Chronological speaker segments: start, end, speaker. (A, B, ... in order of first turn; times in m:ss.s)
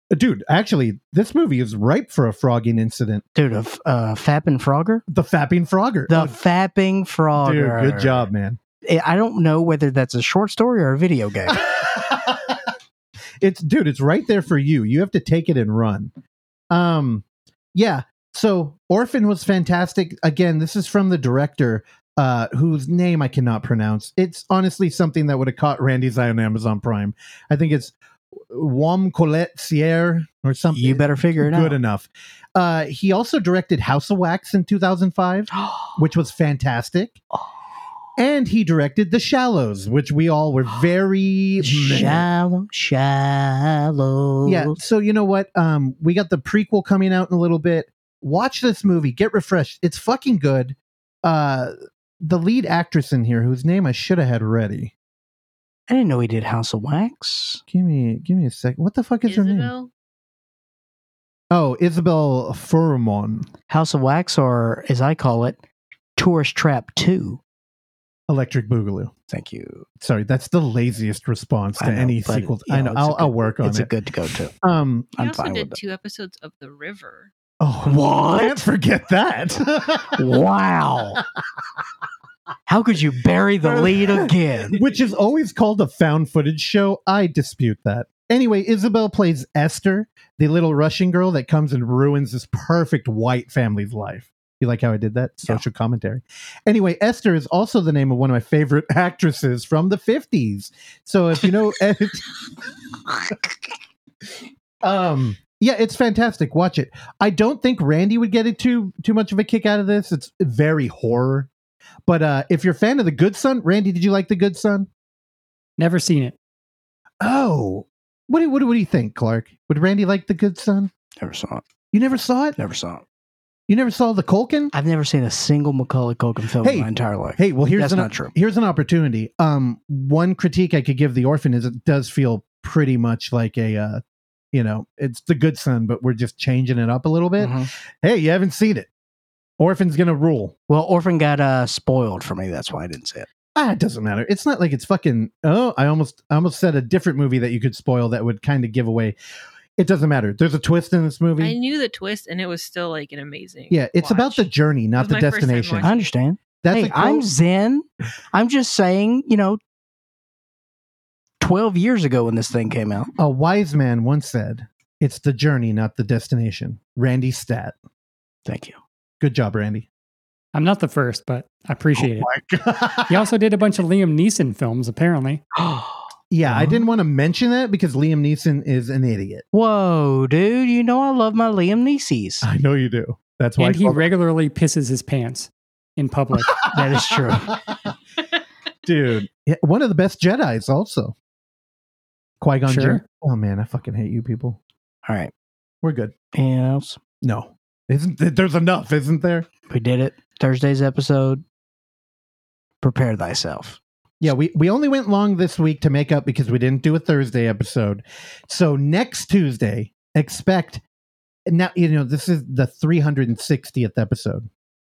0:00.1-0:03.2 A
0:03.4-0:05.0 B
0:05.1-0:06.4 A
0:06.1-0:08.3 B
0:07.4-0:08.6 A
0:08.8-0:11.6 B
0:11.5-0:12.7 A
0:13.4-0:16.1 A
0:16.7-0:28.0 A
0:28.5-0:37.2 A
0:30.7-0:31.8 B
0:35.5-0:36.0 B
0:38.2-0:42.2 A
0:41.6-0:44.8 B
0:44.4-0:54.9 A
0:55.9-0:57.6 B
0:57.7-0:59.7 A
0:59.3-0:59.9 C
1:01.5-1:03.5 A
1:03.7-1:05.6 B
1:06.2-1:07.4 B
1:08.3-1:09.1 A
1:09.3-1:09.8 B
1:10.0-1:13.9 A
1:11.8-1:14.5 B
1:14.6-1:15.1 A
1:15.2-1:15.8 B
1:15.2-1:17.3 C
1:17.6-1:20.3 A
1:17.9-1:18.6 B
1:20.2-1:21.2 B
1:22.7-1:24.8 B
1:23.6-1:42.3 A
1:43.1-1:43.4 A
1:44.8-1:51.5 A
1:52.1-1:54.9 A
1:55.8-1:56.4 D
1:57.2-2:00.9 A
2:01.2-2:01.6 B
2:01.9-2:02.6 A
2:02.6-2:03.0 B
2:03.7-2:04.7 A
2:04.7-2:08.3 B
2:06.6-2:14.0 A
2:14.5-2:18.9 A
2:17.4-2:17.7 B
2:19.6-2:20.5 A
2:20.7-2:23.3 B
2:23.6-2:29.2 A
2:29.8-2:31.6 A
2:31.4-2:36.1 C
2:33.7-2:35.9 A
2:35.8-2:39.6 B
2:36.6-2:37.3 A
2:41.4-2:43.1 B
2:43.2-2:47.8 A
2:48.5-2:48.8 B
2:49.2-2:49.9 A
2:50.5-2:52.3 D
2:52.0-2:53.3 A
2:53.1-2:55.4 D
2:55.6-2:56.8 B
2:56.3-2:59.4 A
2:59.5-3:02.5 B
3:02.4-3:04.1 A
3:03.6-3:06.7 D
3:06.7-3:07.6 B
3:08.9-3:11.1 A
3:12.4-3:14.6 A
3:12.7-3:13.0 D
3:15.1-3:15.3 B
3:15.8-3:16.1 A
3:16.3-3:17.0 B
3:17.2-3:19.5 A
3:19.7-3:21.4 B
3:22.8-3:23.8 B
3:24.2-3:30.8 A
3:31.5-3:34.5 A